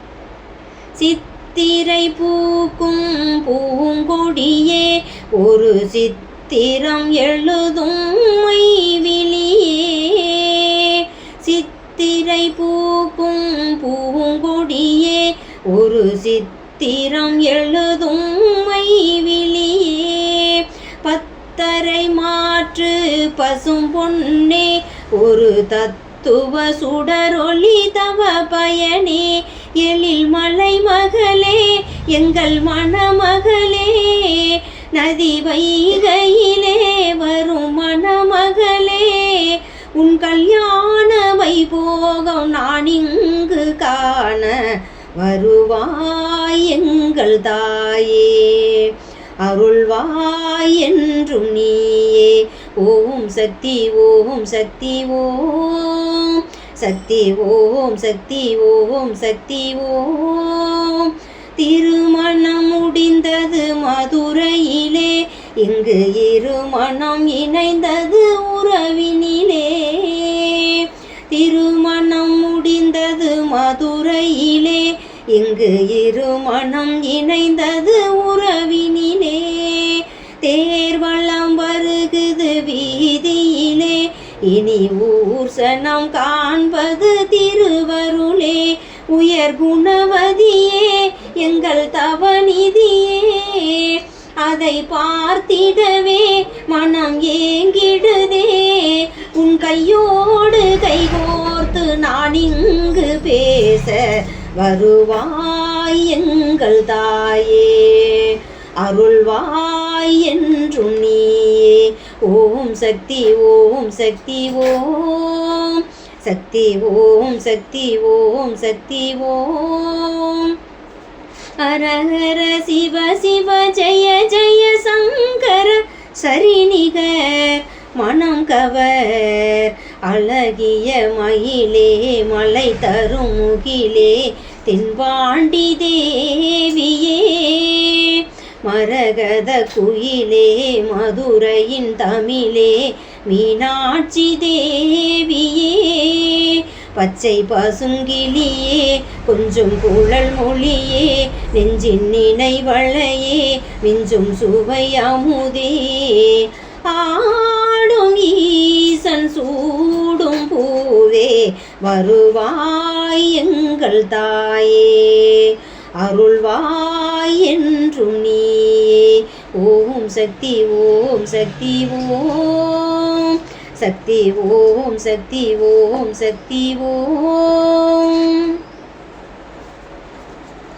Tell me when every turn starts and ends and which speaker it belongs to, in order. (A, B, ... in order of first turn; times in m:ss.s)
0:01.0-2:00.6 A
2:01.6-2:58.6 A